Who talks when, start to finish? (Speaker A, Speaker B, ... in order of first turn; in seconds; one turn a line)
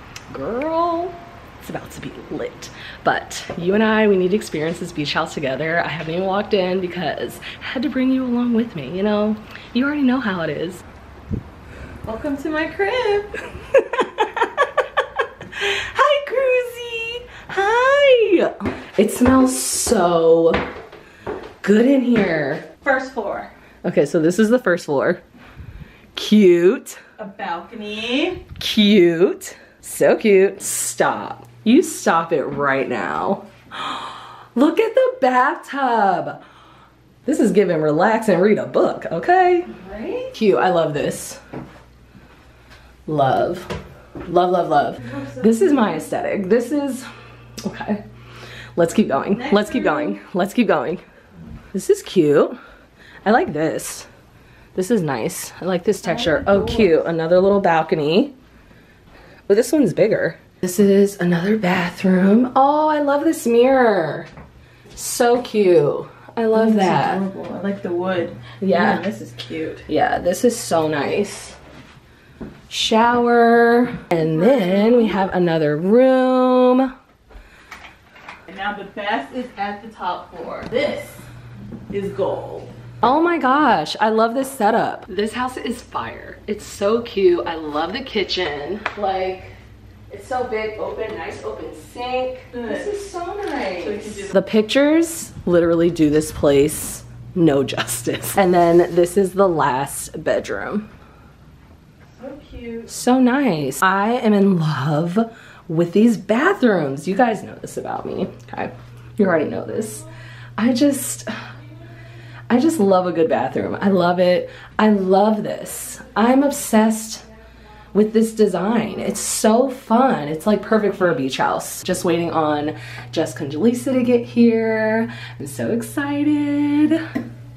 Speaker A: 0.3-10.8
Speaker A: 12.1-14.7
Speaker A: 15.5-20.6
Speaker A: 21.6-22.7
Speaker B: 22.8-23.5
Speaker A: 23.8-25.2
Speaker A: 26.1-27.0
Speaker B: 27.2-28.4
Speaker A: 28.6-36.4
Speaker A: 37.3-39.7
Speaker B: 39.7-40.3
Speaker A: 40.3-41.4
Speaker A: 43.1-47.1
Speaker A: 47.6-48.0
Speaker A: 48.8-51.0
Speaker B: 49.4-50.1
Speaker A: 51.7-52.6
Speaker A: 53.2-54.1
Speaker A: 54.8-58.4
Speaker B: 56.1-56.9
Speaker A: 59.5-64.3
Speaker A: 65.0-67.2
Speaker B: 66.5-69.8
Speaker A: 68.6-69.1
Speaker A: 69.9-71.6
Speaker A: 72.7-76.9
Speaker B: 74.4-75.1
Speaker B: 78.5-81.2
Speaker B: 81.9-82.7
Speaker A: 83.0-89.6
Speaker A: 90.1-100.9
Speaker B: 92.5-92.9
Speaker B: 93.8-94.3
Speaker B: 102.2-102.9
Speaker A: 102.9-110.1
Speaker A: 110.6-111.3
Speaker A: 112.5-117.3
Speaker A: 117.9-127.0